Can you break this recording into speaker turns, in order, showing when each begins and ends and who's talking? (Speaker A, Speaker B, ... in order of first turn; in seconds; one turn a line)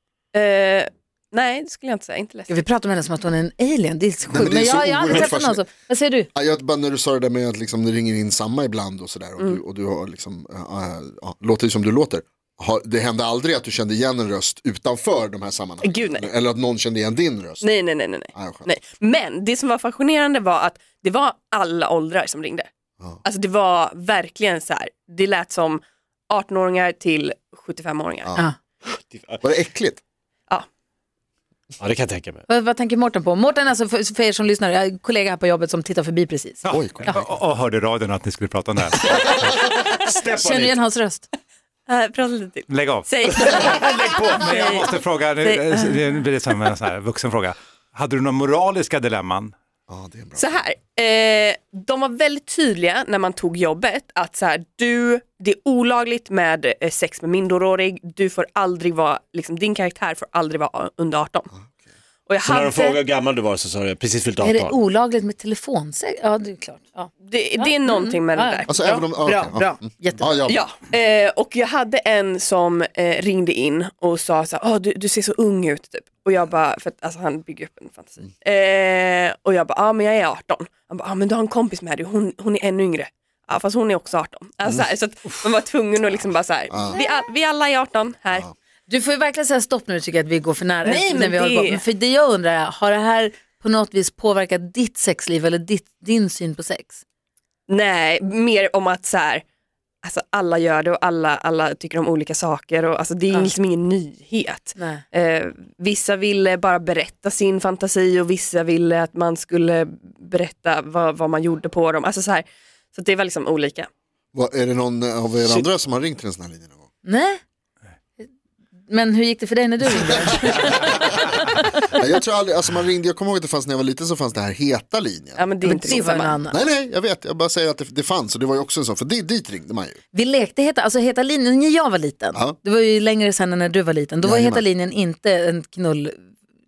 Speaker A: 0.3-2.6
Speaker B: 2.5-6.3
Speaker C: 4.3-5.6
Speaker C: 6.3-17.7
Speaker A: 15.8-16.3
Speaker A: 17.6-22.7
Speaker C: 18.3-18.7
Speaker A: 23.2-28.4
Speaker D: 29.1-29.4
Speaker C: 29.4-30.0
Speaker D: 31.8-32.5
Speaker B: 32.5-37.2
Speaker E: 36.6-39.5
Speaker C: 36.7-37.2
Speaker D: 39.1-40.8
Speaker B: 40.4-41.3
Speaker A: 41.9-46.1
Speaker E: 42.7-43.1
Speaker D: 43.3-44.6
Speaker E: 44.3-49.5
Speaker C: 49.9-50.6
Speaker A: 50.4-61.5
Speaker A: 62.3-63.0
Speaker D: 62.4-64.8
Speaker B: 64.4-68.7
Speaker A: 67.2-69.1
Speaker C: 68.7-70.7
Speaker B: 69.2-70.4
Speaker A: 70.5-88.5
Speaker C: 86.7-87.0
Speaker B: 88.9-97.0
Speaker A: 90.8-91.8
Speaker A: 97.7-99.4
Speaker A: 100.0-113.9
Speaker B: 104.8-105.0
Speaker C: 114.3-116.8
Speaker D: 115.4-115.7
Speaker B: 117.0-117.4
Speaker B: 118.9-121.0
Speaker C: 120.3-121.0
Speaker C: 121.9-130.0
Speaker A: 125.4-126.4
Speaker B: 125.6-126.6
Speaker B: 130.1-136.2
Speaker C: 134.2-134.7